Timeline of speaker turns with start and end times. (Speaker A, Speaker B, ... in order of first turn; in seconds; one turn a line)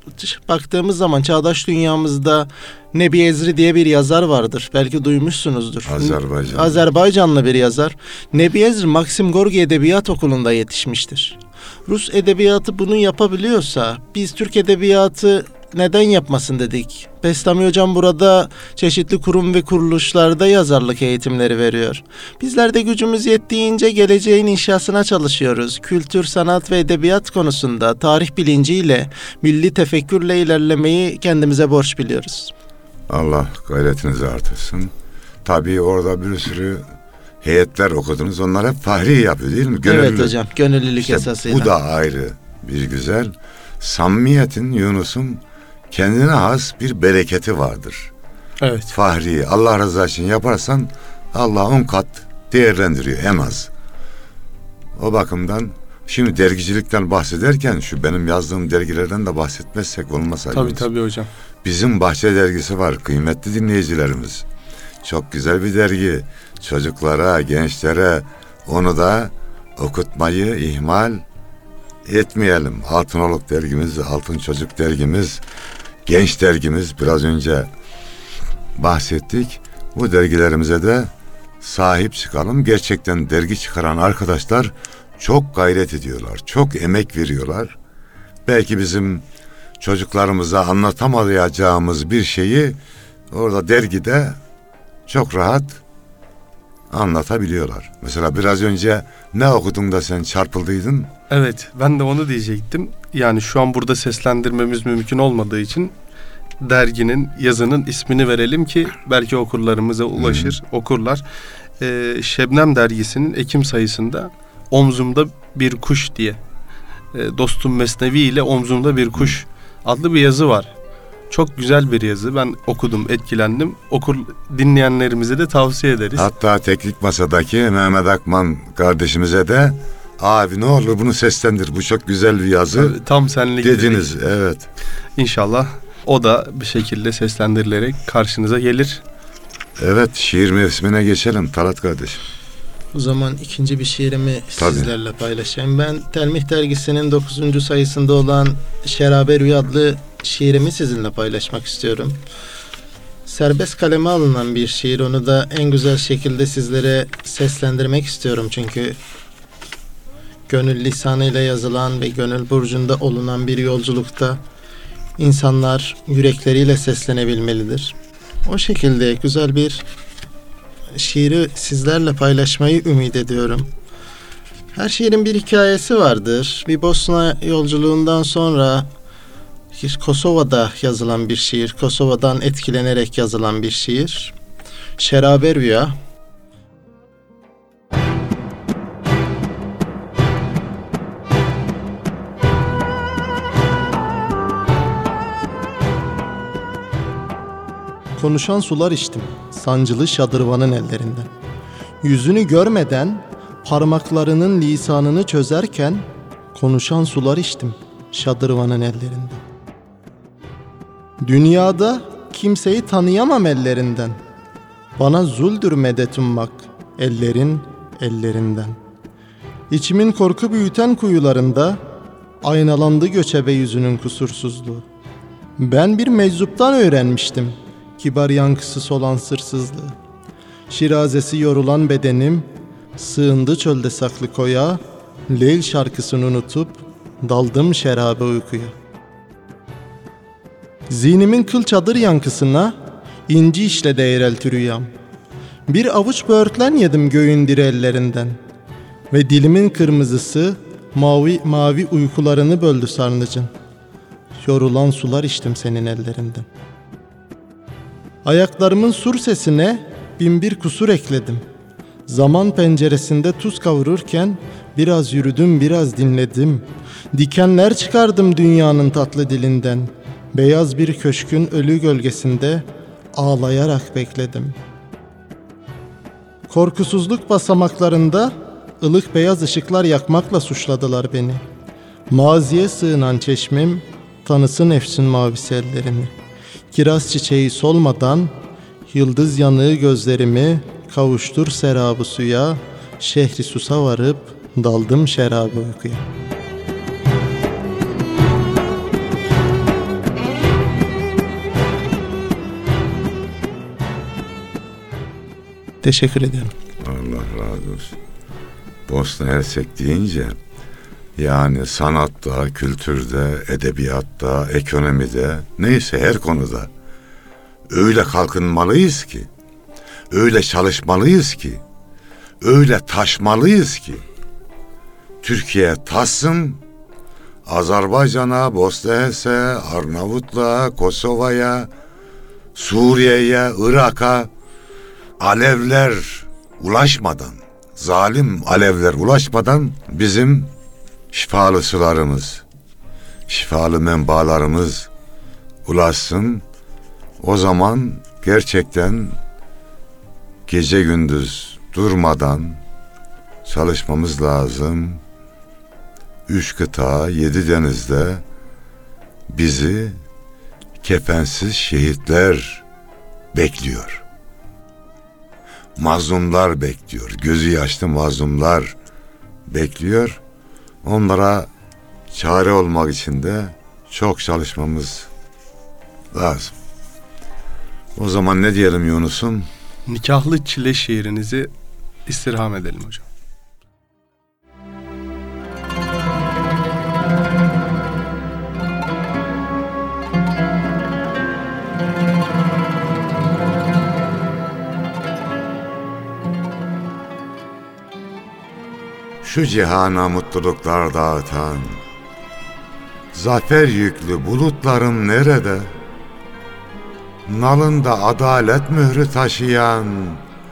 Speaker A: 0.1-32.5
Speaker B: 5.8-6.8
Speaker B: 33.1-34.9
Speaker B: 35.4-36.8
Speaker B: 37.4-40.3
Speaker A: 39.9-41.7
Speaker B: 41.0-48.1
Speaker C: 48.6-48.9
Speaker B: 48.9-53.7
Speaker B: 55.0-60.9
Speaker C: 60.5-61.3
Speaker B: 61.6-64.5
Speaker B: 65.0-71.2
Speaker B: 72.0-75.4
Speaker B: 76.0-77.7
Speaker B: 78.8-87.7
Speaker B: 88.4-89.2
Speaker B: 89.8-92.8
Speaker B: 93.3-94.4
Speaker B: 95.1-95.8
Speaker B: 96.9-101.1
Speaker C: 101.3-105.9
Speaker C: 106.6-111.2
Speaker B: 110.2-110.5
Speaker C: 111.8-116.4
Speaker C: 117.1-120.7
Speaker C: 121.3-126.3
Speaker B: 126.2-133.0
Speaker C: 132.7-134.1
Speaker B: 133.6-134.7
Speaker C: 135.2-139.0
Speaker B: 139.8-142.2
Speaker A: 142.9-152.2
Speaker B: 144.6-144.9
Speaker A: 153.2-159.0
Speaker A: 160.5-164.4
Speaker A: 165.2-169.8
Speaker A: 170.9-173.7
Speaker A: 174.7-178.9
Speaker A: 179.7-184.3
Speaker A: 185.0-185.9
Speaker A: 198.2-201.3
Speaker A: 202.0-209.4
Speaker A: 211.2-214.2
Speaker A: 215.0-218.8
Speaker A: 219.7-221.8
Speaker A: 222.4-224.8
Speaker A: 225.6-229.9
Speaker A: 230.7-238.7
Speaker A: 240.9-242.8
Speaker A: 243.3-244.9
Speaker A: 245.7-248.4
Speaker A: 249.1-253.5
Speaker A: 254.4-256.5
Speaker A: 258.2-261.4
Speaker A: 262.1-274.6
Speaker A: 276.5-281.4
Speaker A: 282.1-286.1
Speaker A: 286.7-288.3
Speaker A: 288.9-296.0
Speaker A: 305.8-306.5
Speaker B: 306.8-307.9
Speaker B: 308.9-310.4
Speaker B: 311.2-316.7
Speaker B: 317.7-319.3
Speaker B: 320.1-321.6
Speaker B: 322.4-324.0
Speaker B: 325.2-326.6
Speaker B: 327.4-331.7
Speaker B: 332.5-334.3
Speaker B: 335.2-340.5
Speaker B: 341.1-342.4
Speaker B: 343.3-344.9
Speaker B: 345.6-346.4
Speaker B: 347.2-349.2
Speaker B: 350.5-352.6
Speaker B: 353.4-355.0
Speaker B: 356.3-358.2
Speaker B: 359.3-360.0
Speaker B: 360.8-362.6
Speaker B: 363.3-364.0
Speaker B: 365.8-368.7
Speaker B: 369.5-370.2
Speaker B: 370.8-371.5
Speaker B: 372.1-375.1
Speaker B: 376.1-376.5
Speaker B: 377.9-379.5
Speaker C: 379.9-381.5
Speaker C: 382.1-383.0
Speaker B: 399.2-401.8
Speaker B: 403.1-405.7
Speaker B: 407.2-410.2